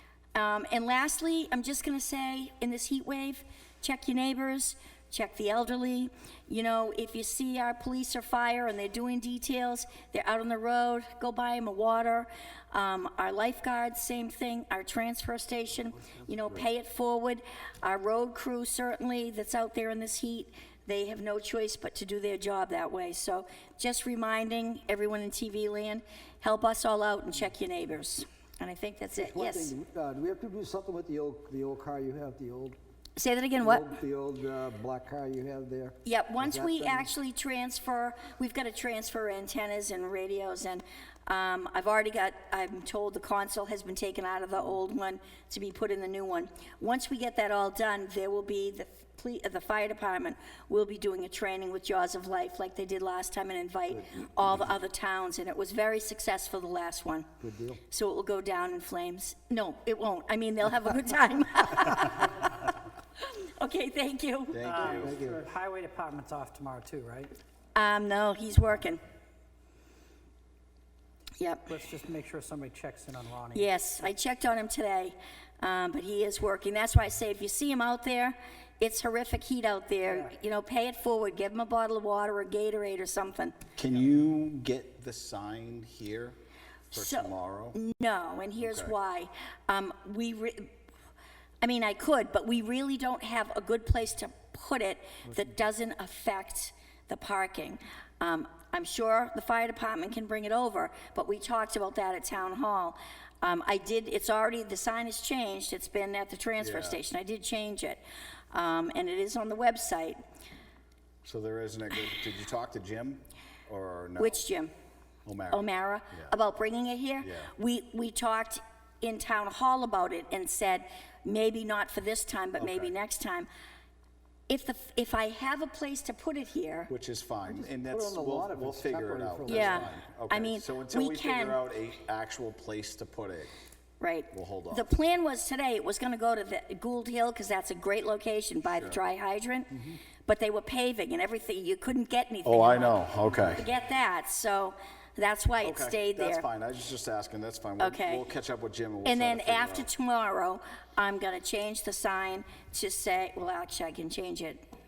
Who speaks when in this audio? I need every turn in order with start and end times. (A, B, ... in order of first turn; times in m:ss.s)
0:00.3-0:29.7 A
0:29.2-0:32.8 B
0:33.2-0:33.9 A
0:33.6-0:37.1 B
0:36.0-0:57.3 A
0:53.9-0:54.3 B
0:57.4-0:57.8 B
0:57.9-1:02.6 A
1:03.2-1:05.0 A
1:04.5-1:05.1 C
1:04.6-1:07.3 D
1:04.8-1:05.5 B
1:07.8-1:09.0 A
1:11.4-1:11.7 A
1:11.7-1:13.7 D
1:13.5-1:23.6 A
1:23.8-1:26.4 C
1:26.9-1:27.8 C
1:26.9-1:30.7 A
1:28.6-1:28.9 C
1:31.6-1:48.0 A
1:46.6-1:47.0 C
1:48.5-1:50.2 A
1:51.2-1:54.5 C
1:54.2-1:54.7 A
1:55.3-1:56.3 C
1:55.5-2:03.5 A
1:57.2-1:57.5 C
2:02.6-2:02.9 C
2:04.5-2:06.9 A
2:06.9-2:13.5 C
2:07.5-2:10.0 B
2:09.5-2:11.6 A
2:14.0-2:26.5 A
2:14.3-2:15.0 C
2:18.7-2:19.0 C
2:22.4-2:23.6 C
2:25.6-2:29.9 C
2:27.8-2:28.3 A
2:29.0-2:34.6 A